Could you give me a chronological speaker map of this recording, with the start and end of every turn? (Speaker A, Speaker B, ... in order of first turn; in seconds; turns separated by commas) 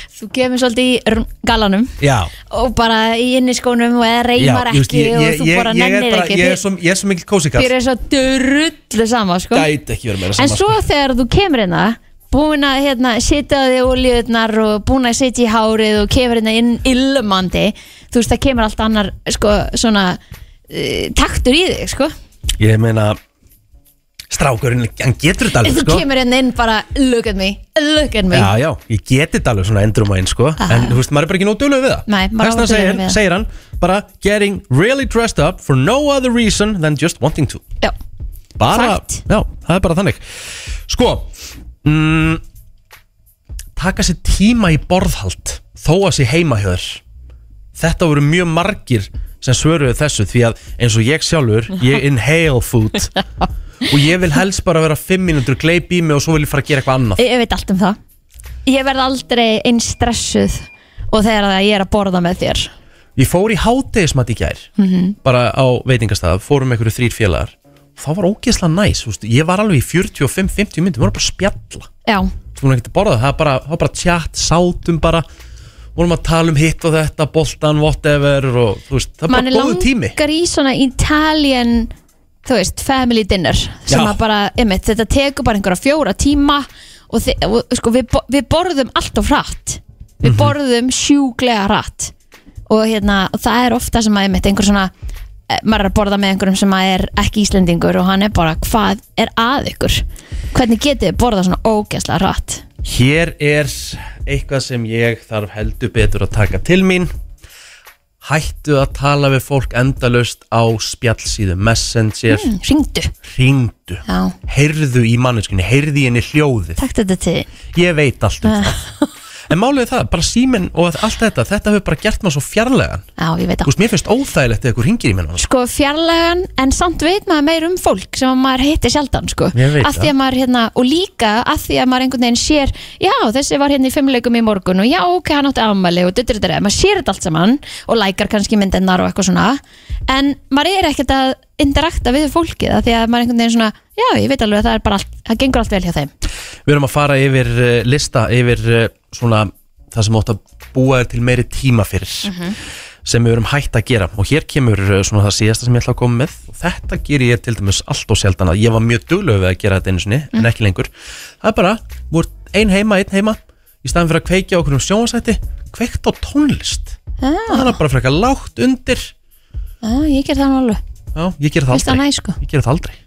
Speaker A: 0.2-2.0, Speaker B: 2.0-2.3, Speaker A: 2.5-6.6, Speaker B: 4.4-7.7, Speaker A: 7.6-9.7, Speaker B: 9.5-10.8, Speaker A: 10.4-22.1, Speaker B: 22.6-23.2, Speaker B: 24.3-26.1, Speaker A: 25.6-28.5, Speaker B: 28.3-37.6, Speaker A: 30.6-31.0, Speaker A: 32.1-33.2, Speaker B: 38.6-40.2, Speaker A: 38.7-39.2, Speaker B: 40.9-41.3, Speaker B: 41.8-42.4, Speaker B: 43.8-47.0, Speaker B: 47.8-53.1, Speaker B: 53.9-57.2, Speaker A: 57.2-58.0, Speaker A: 58.7-62.7, Speaker B: 63.2-64.7, Speaker A: 64.8-65.2, Speaker B: 65.2-71.9, Speaker A: 72.0-72.3, Speaker B: 72.5-75.2, Speaker B: 76.0-80.2, Speaker A: 79.3-81.9, Speaker A: 82.5-92.1, Speaker B: 83.9-84.2, Speaker B: 90.2-90.5, Speaker A: 92.7-94.9, Speaker A: 95.5-102.7, Speaker B: 102.8-107.1, Speaker B: 108.2-112.5, Speaker A: 112.3-113.1, Speaker B: 113.2-116.8, Speaker A: 114.1-114.4, Speaker A: 116.8-117.5, Speaker B: 117.7-118.8, Speaker A: 118.4-119.1, Speaker B: 119.5-123.0, Speaker A: 123.2-123.7, Speaker B: 123.7-125.5, Speaker A: 125.4-146.1, Speaker B: 129.5-130.1, Speaker B: 146.7-152.3, Speaker A: 152.2-152.6, Speaker B: 153.1-169.1, Speaker A: 167.2-167.8, Speaker A: 169.8-170.8, Speaker B: 171.2-173.0, Speaker A: 171.7-172.4